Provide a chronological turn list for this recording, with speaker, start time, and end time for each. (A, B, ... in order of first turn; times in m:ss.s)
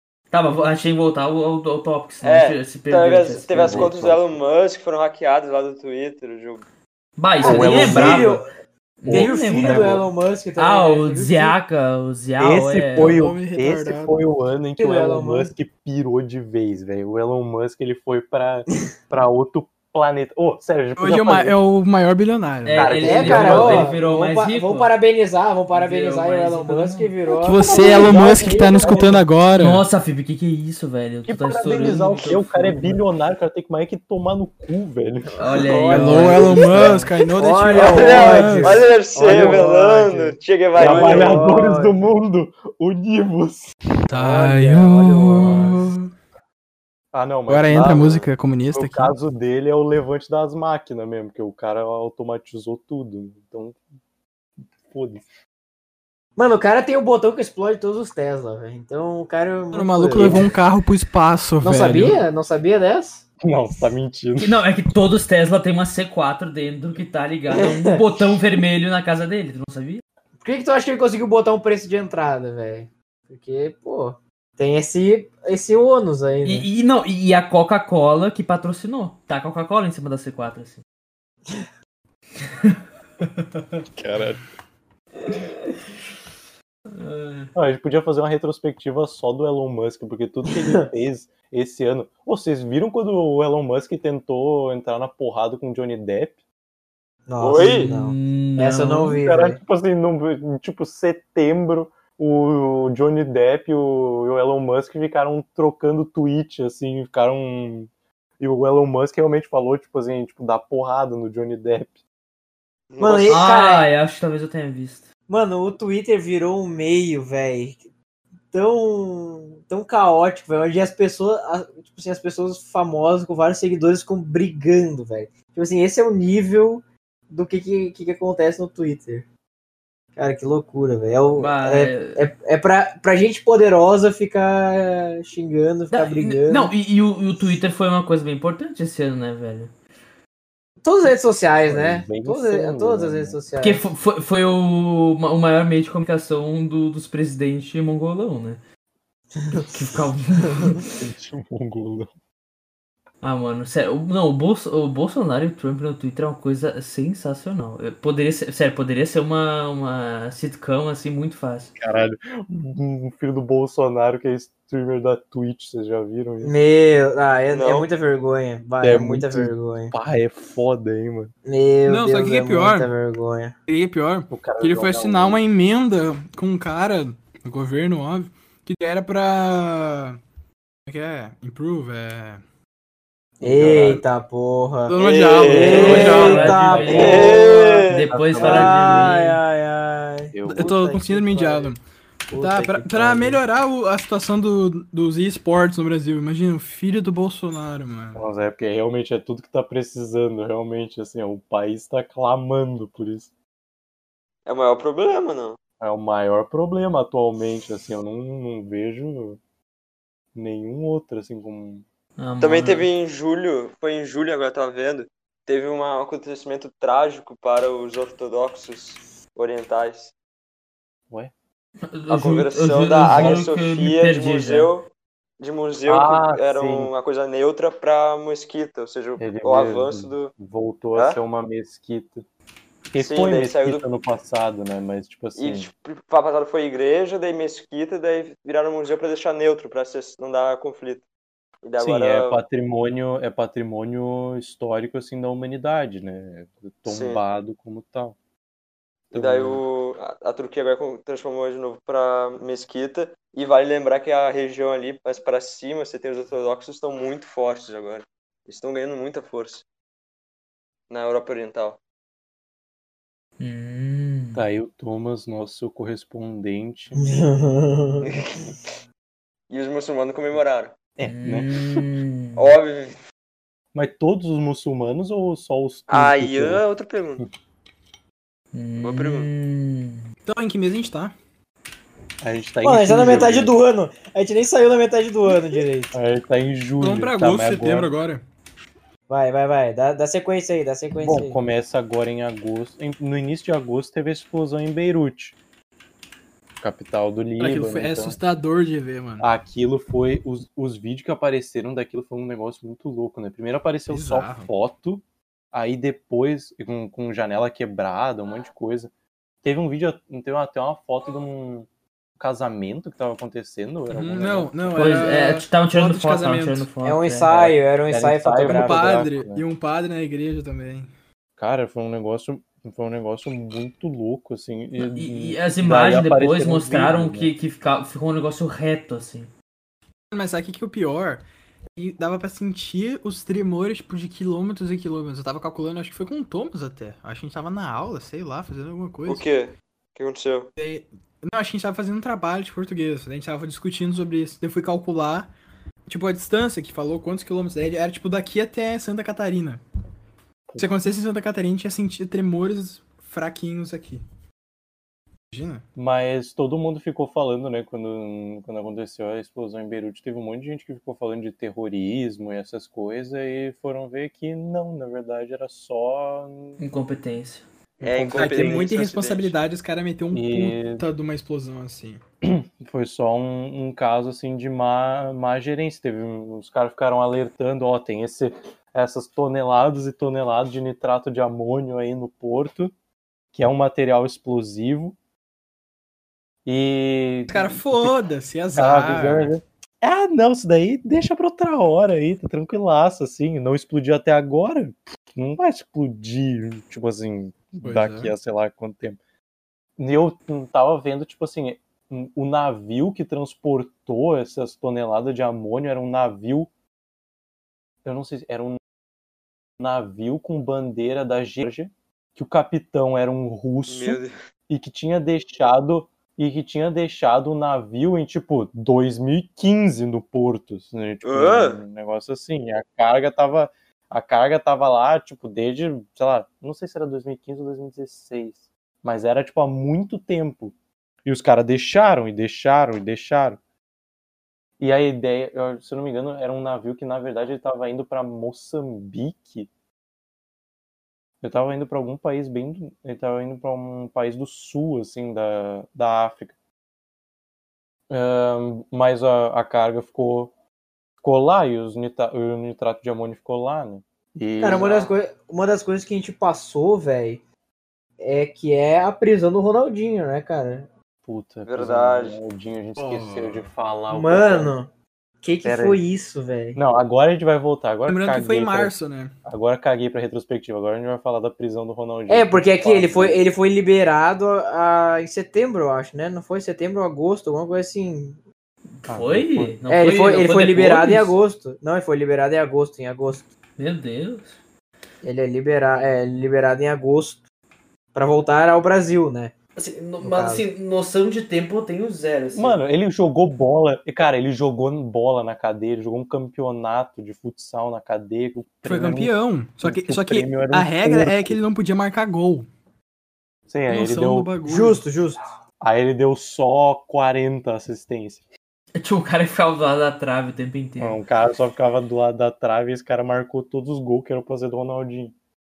0:00.3-0:03.9 A
0:02.2-0:06.6 B
0:03.5-0:04.4 C
0:07.2-0:08.5 A
0:07.4-0:08.5 D
0:07.4-0:08.3 C
0:09.0-0:10.0 A
0:09.0-0:10.1 C
0:09.1-0:11.6 D
0:10.6-0:13.2 A
0:12.4-0:21.6 C
0:12.9-0:14.2 E
0:14.8-0:15.5 D
0:21.0-0:23.6 E
0:22.6-0:24.9 A
0:22.7-0:23.9 C
0:23.0-0:29.2 D
0:25.7-0:27.1 A
0:27.4-0:29.8 E
0:27.7-0:29.2 C
0:29.6-0:33.0 A
0:31.2-0:36.9 C
0:35.3-0:42.0 D
0:35.4-0:37.1 A
0:35.8-0:38.8 E
0:37.7-0:41.4 B
0:39.2-0:45.9 C
0:44.1-0:46.1 E
0:44.3-0:44.6 D
0:45.4-0:45.7 D
0:47.1-0:53.8 C
0:47.5-0:49.1 E
0:47.9-0:48.3 B
0:54.8-0:55.2 C
0:56.4-1:00.5 D
0:59.7-1:02.2 E
1:00.1-1:00.5 C
1:01.6-1:03.2 D
1:03.4-1:04.6 C
1:04.4-1:10.0 A
1:07.5-1:08.2 D
1:10.4-1:16.7 D
1:16.4-1:20.8 A
1:22.4-1:22.8 A
1:24.0-1:24.4 C
1:27.0-1:27.5 A
1:27.5-1:36.4 C
1:30.5-1:30.8 D
1:37.3-1:39.6 D
1:37.4-1:37.9 B
1:37.6-1:39.2 A
1:39.2-1:47.9 C
1:48.4-1:52.0 C
1:52.9-1:53.4 B
1:53.0-1:53.9 D
1:53.3-1:55.1 A
1:55.3-1:57.9 D
1:58.5-2:09.3 D
2:10.2-2:16.7 D
2:11.4-2:12.2 A
2:15.9-2:19.7 A
2:20.8-2:23.9 D
2:21.6-2:23.4 C
2:23.6-2:28.6 A
2:29.3-2:29.7 D
2:29.6-2:30.9 A
2:31.0-2:32.1 C
2:33.2-2:41.7 A
2:41.8-2:46.5 C
2:46.4-2:49.9 D
2:47.5-2:47.9 B
2:48.8-2:51.3 C
2:51.4-2:53.5 D
2:51.8-2:52.9 E
2:53.7-3:00.2 E
2:54.3-2:55.4 C
3:00.8-3:02.4 E
3:03.4-3:04.0 C
3:03.4-3:05.0 D
3:04.9-3:06.9 E
3:05.0-3:06.3 B
3:05.5-3:07.5 D
3:05.7-3:09.4 A
3:05.7-3:07.4 C
3:06.9-3:08.0 B
3:08.0-3:09.2 C
3:08.4-3:11.8 D
3:10.3-3:10.8 C
3:10.4-3:11.8 E
3:12.3-3:13.4 D
3:12.3-3:18.2 E
3:18.1-3:23.3 C
3:24.4-3:25.6 B
3:25.8-3:29.4 C
3:30.3-3:31.8 C
3:32.2-3:32.9 A
3:32.4-3:40.1 B
3:41.9-3:44.7 A
3:42.1-3:44.9 B
3:43.0-3:43.5 C
3:45.4-3:50.3 B
3:45.8-3:46.9 C
3:49.2-3:52.2 C
3:52.9-3:55.7 C
3:53.0-3:53.8 B
3:55.4-4:01.0 B
4:01.6-4:02.4 B
4:01.8-4:08.2 C
4:06.9-4:07.2 B
4:09.1-4:09.6 C
4:09.1-4:19.6 B
4:20.9-4:21.8 B
4:23.4-4:24.4 A
4:24.3-4:27.1 C
4:27.0-4:28.1 D
4:28.0-4:28.6 B
4:29.5-4:30.8 B
4:31.0-4:31.8 C
4:31.0-4:32.5 A
4:32.4-4:33.0 B
4:33.7-4:36.6 C
4:35.9-4:37.2 B
4:38.5-4:40.1 A
4:38.8-4:39.3 B
4:40.2-4:41.1 E
4:42.2-4:43.5 C
4:42.6-4:46.0 D
4:45.9-4:47.9 C
4:46.8-4:48.2 E
4:49.1-4:51.4 D
4:51.0-4:55.4 C
4:56.6-4:58.2 C
4:57.4-4:59.3 E
4:59.2-5:08.9 C
5:03.9-5:04.5 E
5:09.4-5:11.7 C
5:12.2-5:14.8 C
5:13.9-5:16.7 E
5:14.7-5:17.5 A
5:16.8-5:19.0 D
5:17.9-5:19.4 C
5:18.4-5:20.9 E
5:21.4-5:27.3 C
5:24.8-5:29.3 A
5:30.1-5:31.2 E
5:31.7-5:39.2 E
5:39.0-5:40.5 B
5:40.6-5:45.3 E
5:45.8-5:49.6 E
5:50.6-5:54.0 E
5:55.3-5:55.6 E
5:55.8-6:06.6 C
6:06.6-6:07.4 A
6:07.8-6:08.7 C
6:07.8-6:09.4 B
6:08.1-6:12.0 E
6:10.1-6:10.8 C
6:12.2-6:22.7 C
6:23.3-6:25.0 C
6:26.4-6:28.0 C
6:27.3-6:29.3 E
6:28.5-6:39.0 C
6:37.6-6:38.1 E
6:39.8-6:46.5 C
6:47.8-6:48.6 C
6:49.6-7:13.4 C
6:53.7-6:54.1 B
7:01.0-7:01.6 B
7:14.6-7:19.5 C
7:21.2-7:26.3 C
7:27.9-7:30.3 C
7:31.0-7:34.7 C
7:34.4-7:37.2 D
7:34.4-7:34.9 B
7:38.0-7:40.7 D
7:41.0-7:44.5 C
7:41.4-7:42.2 B
7:42.8-7:43.5 E
7:43.9-7:44.7 D
7:45.2-7:46.6 D
7:45.4-7:45.8 C
7:46.5-7:48.7 C
7:47.9-7:49.1 E
7:49.2-7:53.2 C
7:52.1-7:58.2 D
7:58.8-8:01.2 A
7:58.9-7:59.6 C
7:59.7-8:03.3 D
8:03.6-8:04.4 A
8:05.0-8:07.2 D
8:07.9-8:09.3 D
8:09.6-8:12.6 A
8:10.0-8:10.4 D
8:12.3-8:21.4 C
8:18.6-8:22.5 E
8:23.5-8:24.3 C
8:23.7-8:24.8 E
8:24.4-8:25.2 D
8:25.6-8:28.2 C
8:28.8-8:31.0 A
8:30.8-8:35.1 C